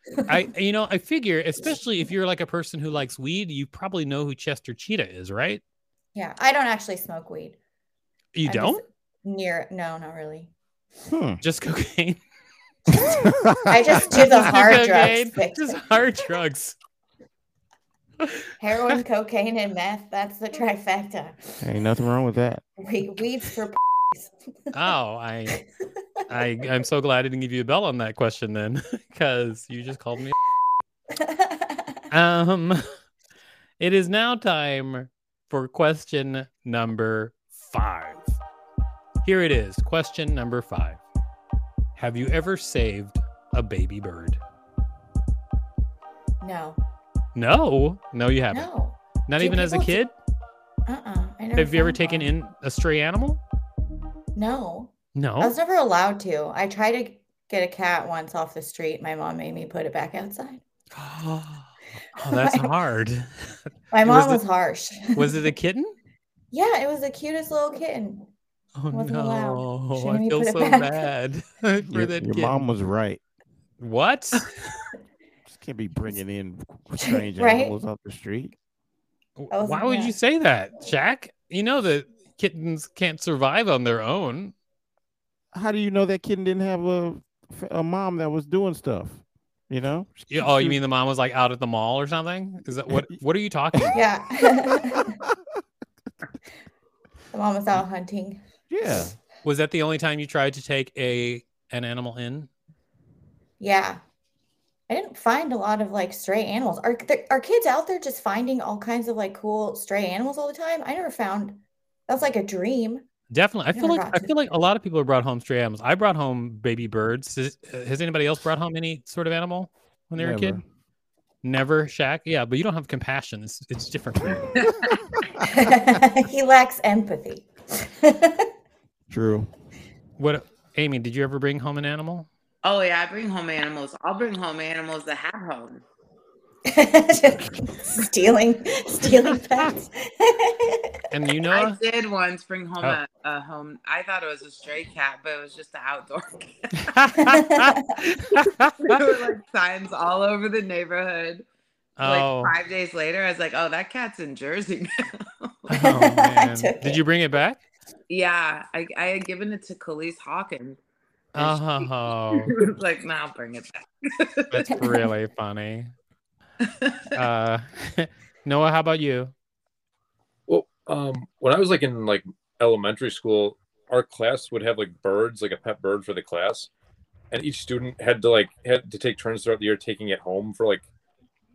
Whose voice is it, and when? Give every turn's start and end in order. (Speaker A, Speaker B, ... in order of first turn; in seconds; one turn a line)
Speaker A: 0.3-5.6
Speaker B: 6.1-7.6
Speaker A: 8.3-8.8
Speaker B: 8.4-10.5
Speaker C: 11.1-11.4
Speaker A: 11.4-12.2
Speaker B: 13.7-15.8
Speaker A: 14.0-16.8
Speaker B: 18.6-21.6
Speaker C: 21.6-22.6
Speaker B: 22.8-24.3
Speaker A: 24.7-25.6
Speaker A: 26.3-30.3
Speaker B: 31.2-31.9
Speaker A: 32.1-32.8
Speaker A: 33.8-38.3
Speaker A: 39.2-41.0
Speaker A: 42.0-44.4
Speaker B: 46.4-46.8
Speaker A: 47.3-48.7
Speaker B: 48.5-50.0
Speaker A: 49.3-50.1
Speaker B: 50.9-52.3
Speaker A: 51.5-53.4
Speaker B: 54.3-60.6
Speaker A: 55.1-55.5
Speaker A: 60.9-63.3
Speaker B: 62.4-62.7
Speaker B: 63.9-65.4
Speaker A: 64.0-64.4
Speaker A: 65.2-65.9
Speaker B: 66.5-68.3
Speaker A: 68.8-72.6
Speaker B: 68.9-71.0
Speaker C: 72.0-73.2
Speaker A: 73.8-74.8
Speaker C: 75.5-78.5
Speaker B: 77.0-77.8
Speaker A: 79.4-84.5
Speaker B: 79.5-80.1
Speaker C: 85.5-90.8
Speaker A: 90.3-94.0
Speaker B: 93.9-95.2
Speaker B: 97.3-98.4
Speaker C: 98.7-99.2
Speaker A: 99.4-102.5
Speaker B: 103.6-104.0
Speaker B: 104.9-113.0
Speaker A: 113.3-120.6
Speaker B: 113.7-114.3
Speaker C: 120.2-120.6
Speaker A: 121.4-124.5
Speaker B: 125.5-128.4
Speaker C: 129.1-129.5
Speaker A: 130.2-132.3
Speaker D: 132.6-135.8
Speaker B: 136.7-140.9
Speaker A: 141.1-141.8
Speaker D: 141.5-146.8
Speaker A: 146.8-149.0
Speaker B: 147.3-147.8
Speaker D: 148.8-151.4
Speaker A: 152.0-152.6
Speaker D: 152.0-155.7
Speaker A: 155.7-157.6
Speaker B: 155.7-157.0
Speaker D: 158.1-160.8
Speaker A: 161.3-162.5
Speaker D: 161.3-164.9
Speaker A: 164.5-165.9
Speaker A: 167.1-169.3
Speaker E: 170.5-176.7
Speaker E: 177.3-180.8